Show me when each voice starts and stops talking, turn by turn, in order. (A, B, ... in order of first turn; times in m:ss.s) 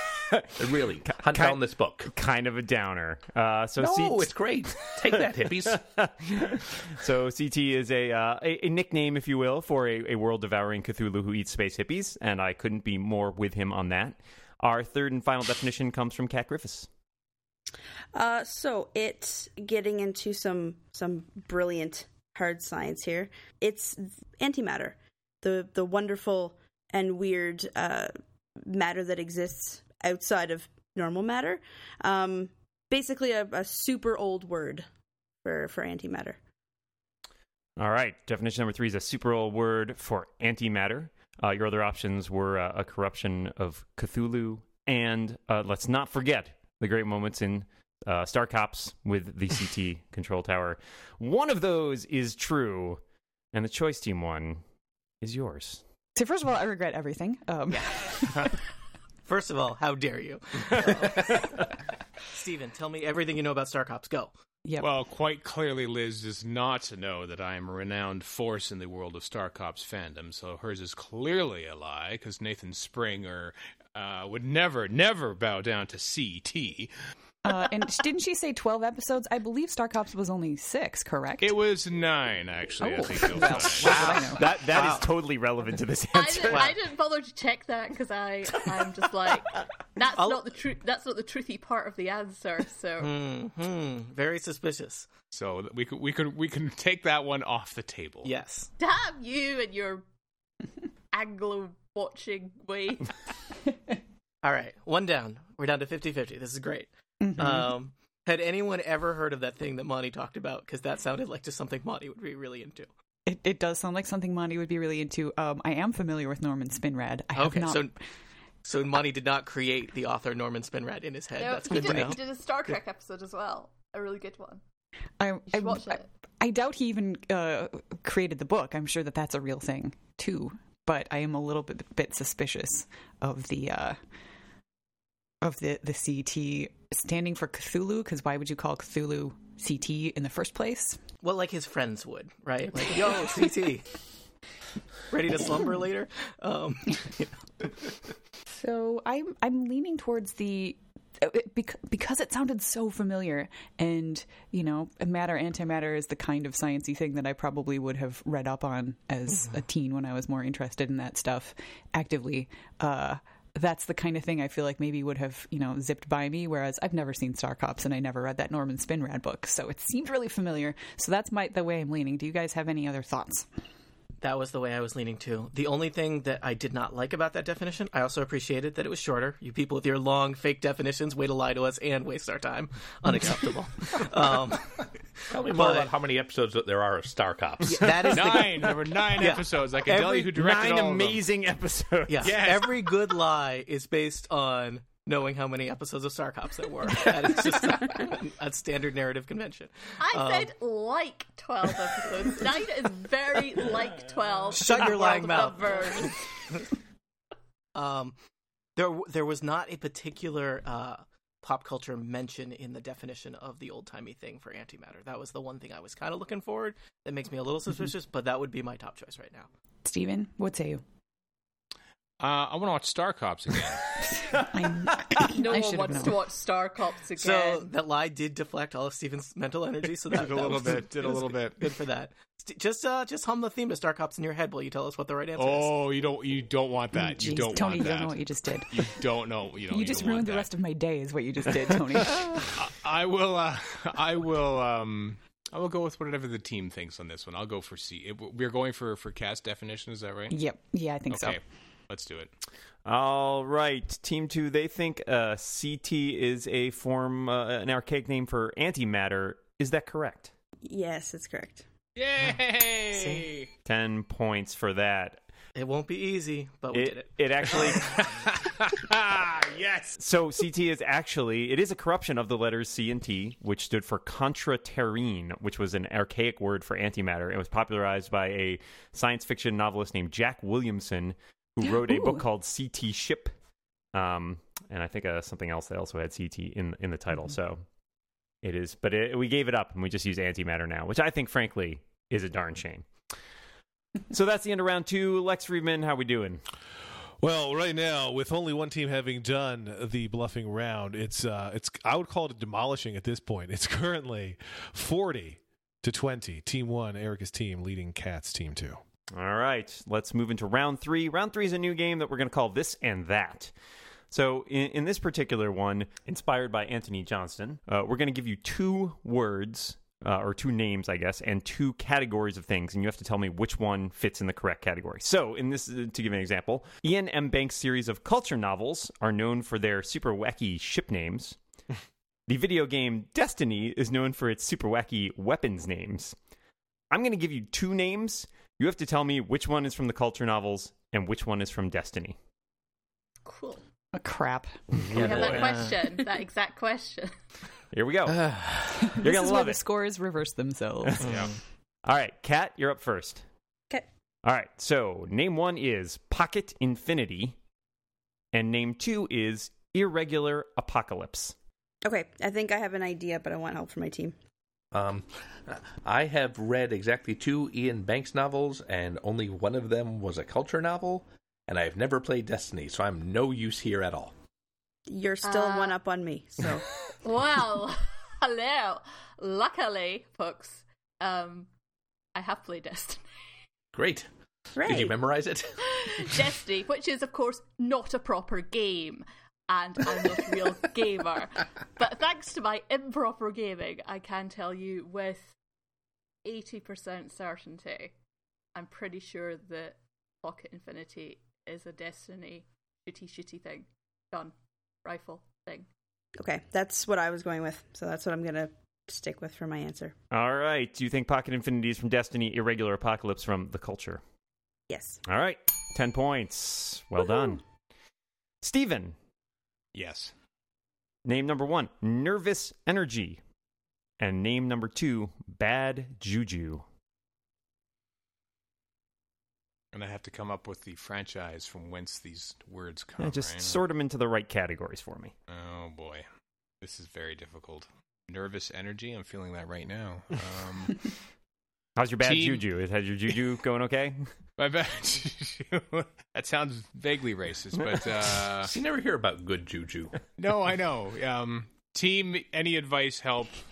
0:00.5-0:02.1 A
0:01.3-0:04.3 B
0:03.8-0:05.8 A
0:05.8-0:16.9 B
0:18.1-0:34.9 C
0:35.4-0:36.4 C
0:37.8-0:53.0 B
0:53.5-0:54.6 B
0:55.2-0:55.8 B
0:56.2-0:58.5 D
0:59.3-1:01.6 E
1:02.3-1:04.3 E
1:04.8-1:16.9 F
1:17.4-1:21.6 D
1:21.4-1:24.3 F
1:22.8-1:24.4 D
1:23.8-1:25.1 E
1:23.9-1:26.7 B
1:26.1-1:33.1 G
1:26.5-1:26.7 E
1:30.2-1:30.4 E
1:33.0-1:35.1 E
1:35.3-1:38.3 F
1:38.2-1:38.7 E
1:38.8-1:40.0 G
1:41.1-1:43.1 G
1:44.4-1:52.9 E
1:47.2-1:47.7 D
1:53.3-1:57.9 D
1:57.4-1:58.0 E
1:58.6-2:02.2 E
2:01.4-2:04.6 G
2:05.2-2:14.0 D
2:05.5-2:06.1 G
2:15.4-2:21.0 D
2:21.2-2:23.9 E
2:25.1-2:27.7 E
2:28.5-2:53.5 D
2:54.2-3:04.9 E
3:05.3-3:08.1 A
3:05.4-3:05.9 E
3:07.6-3:10.3 E
3:08.0-3:11.2 F
3:10.3-3:12.4 B
3:12.1-3:20.5 E
3:12.2-3:12.9 F
3:20.0-3:26.2 G
3:24.5-3:26.6 E
3:27.8-3:28.2 E
3:28.8-3:39.5 E
3:39.8-3:40.8 D
3:42.2-3:43.9 F
3:44.3-3:46.2 D
3:45.2-3:47.7 G
3:47.2-3:55.8 E
3:50.1-3:51.8 F
3:55.4-4:00.5 F
3:56.9-3:58.9 D
3:59.7-4:02.5 D
4:02.6-4:10.4 F
4:10.3-4:11.4 D
4:11.1-4:12.3 F
4:12.8-4:20.3 B
4:20.6-4:21.6 C
4:22.0-4:23.5 F
4:23.0-4:23.3 E
4:23.6-4:25.2 B
4:25.6-4:27.7 E
4:26.7-4:27.9 B
4:27.7-4:30.0 F
4:30.0-4:43.3 B
4:41.6-4:42.2 D
4:43.9-4:47.6 B
4:48.4-4:52.9 B
4:54.1-4:56.4 B
4:57.2-5:08.8 H
5:09.1-5:13.5 B
5:14.1-5:31.4 B
5:32.3-5:36.2 B
5:36.9-5:42.2 B
5:43.2-5:43.6 G
5:43.9-5:44.6 D
5:44.7-5:45.5 B
5:44.9-5:47.1 G
5:45.0-5:45.7 E
5:47.7-5:48.4 B
5:48.7-5:51.1 D
5:48.9-5:49.6 B
5:51.0-5:51.3 F
5:51.8-5:53.2 B
5:54.2-5:57.4 B
5:58.3-6:01.4 B
6:01.8-6:04.2 C
6:04.7-6:14.1 A
6:14.9-6:16.7 C
6:15.2-6:15.8 G
6:17.0-6:21.5 G
6:22.2-6:23.0 G
6:23.7-6:26.3 A
6:24.6-6:24.9 C
6:25.7-6:35.3 G
6:36.2-6:37.9 G
6:38.6-6:44.3 G
6:44.8-6:45.7 G
6:46.2-6:50.0 C
6:50.1-6:54.0 B
6:54.7-6:55.0 C
6:55.0-6:57.4 B
6:58.4-6:59.0 B
6:59.7-7:00.1 F
7:01.1-7:03.2 B
7:04.0-7:06.6 B
7:09.7-7:13.6 F
7:13.0-7:15.1 B
7:15.3-7:16.1 F
7:16.6-7:20.9 F
7:21.8-7:24.1 B
7:22.0-7:22.4 F
7:24.4-7:28.5 F
7:28.4-7:30.0 A
7:30.2-7:33.4 F